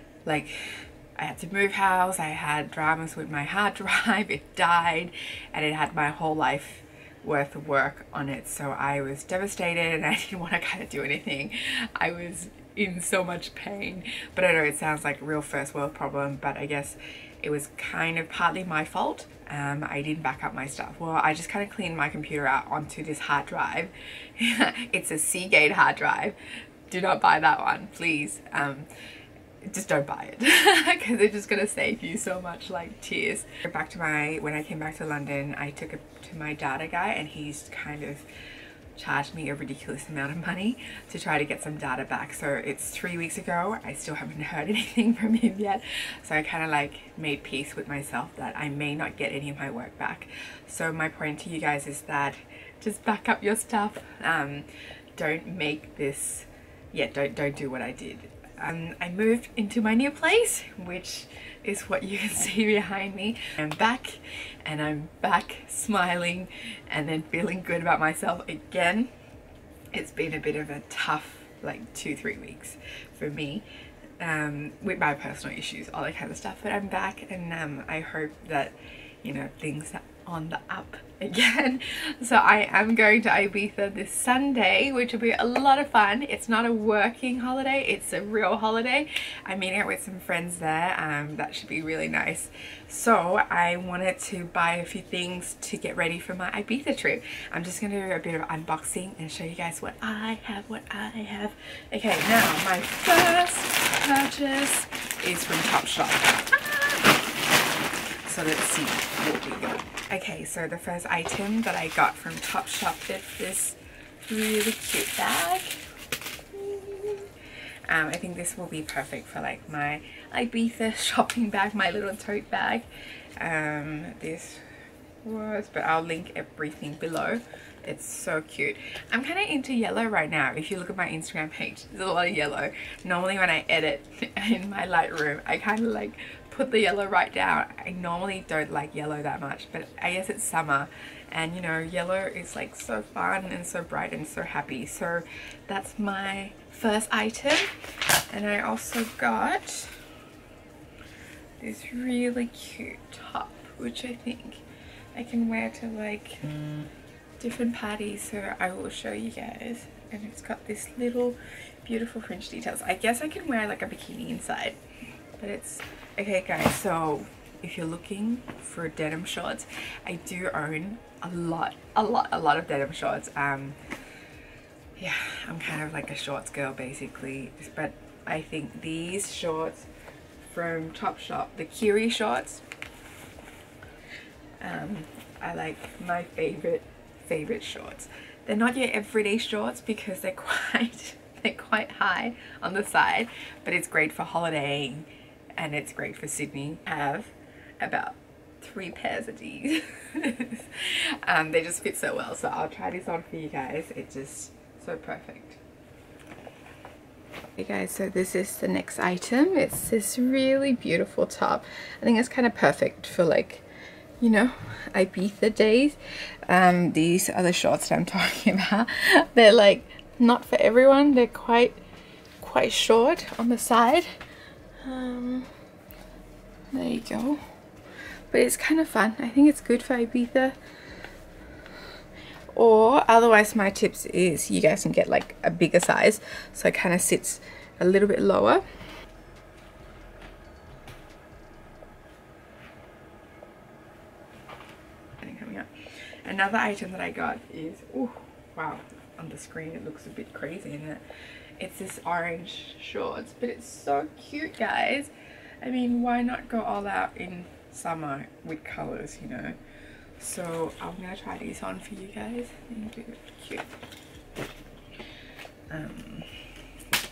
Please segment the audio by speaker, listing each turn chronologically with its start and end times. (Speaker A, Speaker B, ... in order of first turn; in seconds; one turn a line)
Speaker A: 0.2-28.9
Speaker A: 29.6-38.2
Speaker A: 38.9-69.1
Speaker A: 69.9-73.7
Speaker A: 74.2-107.0
Speaker A: 108.2-115.8
Speaker A: 116.5-117.3
Speaker A: 117.8-124.6
Speaker A: 125.2-147.7
Speaker A: 148.3-150.0
Speaker A: 151.6-154.6
Speaker A: 155.1-156.5
Speaker A: 157.4-164.8
Speaker A: 165.4-173.8
Speaker A: 175.0-179.9
Speaker A: 180.4-182.6
Speaker A: 184.6-205.6
Speaker A: 207.6-213.6
Speaker A: 214.2-221.8
Speaker A: 222.4-224.1
Speaker A: 224.8-225.5
Speaker A: 226.7-227.4
Speaker A: 228.3-230.6
Speaker A: 232.5-238.6
Speaker A: 245.2-245.7
Speaker A: 246.2-251.0
Speaker A: 251.6-259.6
Speaker A: 260.2-263.7
Speaker A: 265.7-266.4